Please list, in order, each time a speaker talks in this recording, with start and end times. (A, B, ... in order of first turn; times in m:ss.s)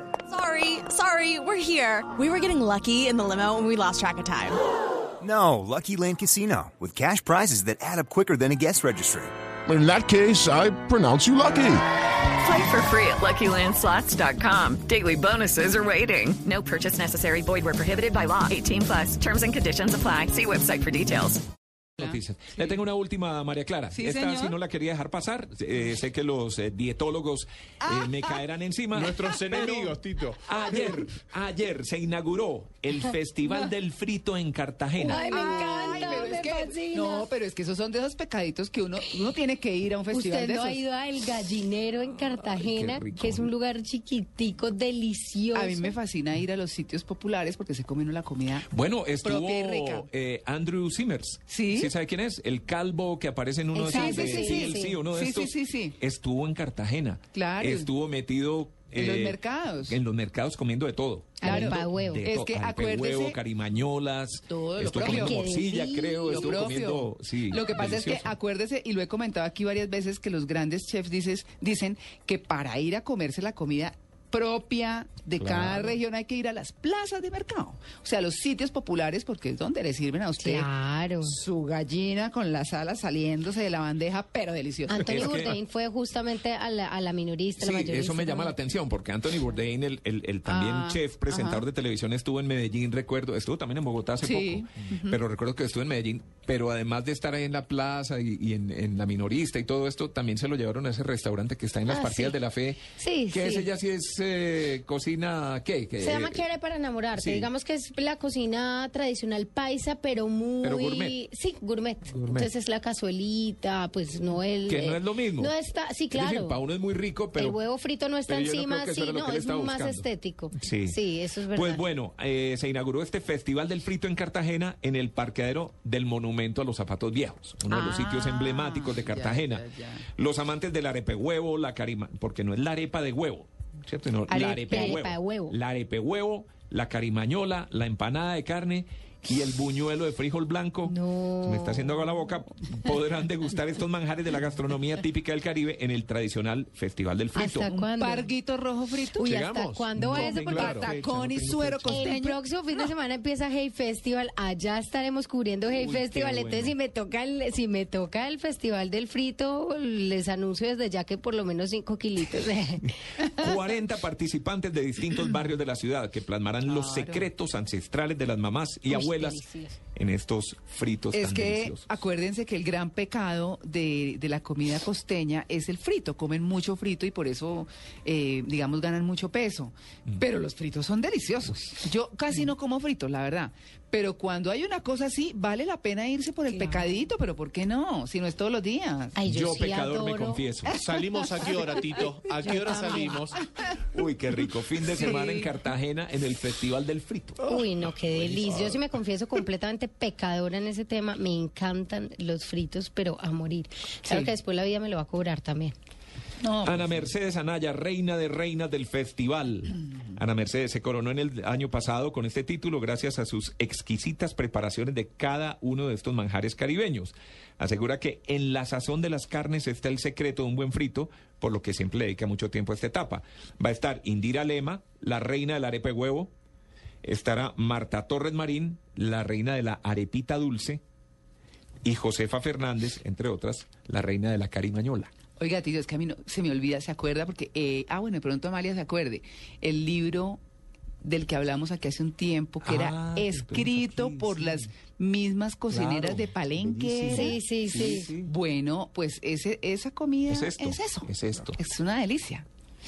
0:00.3-0:04.6 A
0:05.2-0:09.3 B
0:09.7-0:11.8 C
0:12.4-0:21.4 D
0:22.0-0:22.7 E
0:22.0-0:35.4 F
0:23.9-0:24.6 E
0:27.8-0:28.4 E
0:28.9-0:30.4 G
0:35.0-0:37.3 H
0:35.1-0:40.8 E
0:40.1-0:45.9 H
0:42.0-0:43.5 F
0:45.5-0:48.7 E
0:48.7-1:08.3 F
0:49.2-0:50.1 E
0:51.5-0:51.9 E
0:53.7-0:55.0 H
0:53.8-0:56.0 E
0:57.3-0:57.9 E
0:58.9-1:00.0 E
1:01.4-1:02.2 H
1:01.4-1:03.4 E
1:04.5-1:05.4 E
1:05.0-1:06.7 H
1:06.3-1:20.7 E
1:15.4-1:16.0 F
1:20.4-1:21.4 H
1:21.2-1:25.5 E
1:24.9-1:28.6 H
1:24.9-1:25.6 F
1:27.6-1:46.5 F
1:30.4-1:31.6 E
1:34.2-1:35.2 E
1:41.9-1:42.4 H
1:43.0-1:43.7 H
1:46.0-1:56.6 H
1:47.1-1:47.5 F
1:50.6-1:51.2 F
1:52.1-1:52.5 F
1:54.7-1:55.5 F
1:56.1-1:57.6 F
1:57.3-2:01.8 H
1:58.3-2:01.0 F
2:01.5-2:27.7 F
2:07.7-2:10.0 E
2:14.3-2:15.0 E
2:14.6-2:15.6 H
2:20.8-2:22.0 H
2:27.3-2:28.3 H
2:27.7-2:29.4 E
2:29.2-2:30.9 H
2:29.2-2:32.1 G
2:30.1-2:32.9 E
2:31.8-2:42.9 H
2:35.7-2:36.7 F
2:43.2-2:49.4 F
2:46.6-2:47.2 E
2:48.9-2:49.8 H
2:50.0-2:52.0 F
2:51.1-3:09.2 E
3:06.5-3:07.0 H
3:09.1-3:10.4 H
3:09.2-3:10.8 F
3:10.8-3:13.4 G
3:11.1-3:13.3 H
3:13.9-3:17.4 F
3:14.9-3:15.5 E
3:17.4-3:25.7 H
3:18.4-3:18.7 F
3:24.0-3:24.3 E
3:26.4-3:27.1 E
3:26.6-3:46.3 F
3:47.0-3:50.8 F
3:51.8-3:55.1 F
3:55.4-4:00.4 E
4:01.0-4:07.4 E
4:02.6-4:04.7 F
4:05.7-4:08.3 F
4:07.1-4:08.1 H
4:08.2-4:12.5 E
4:10.3-4:11.6 F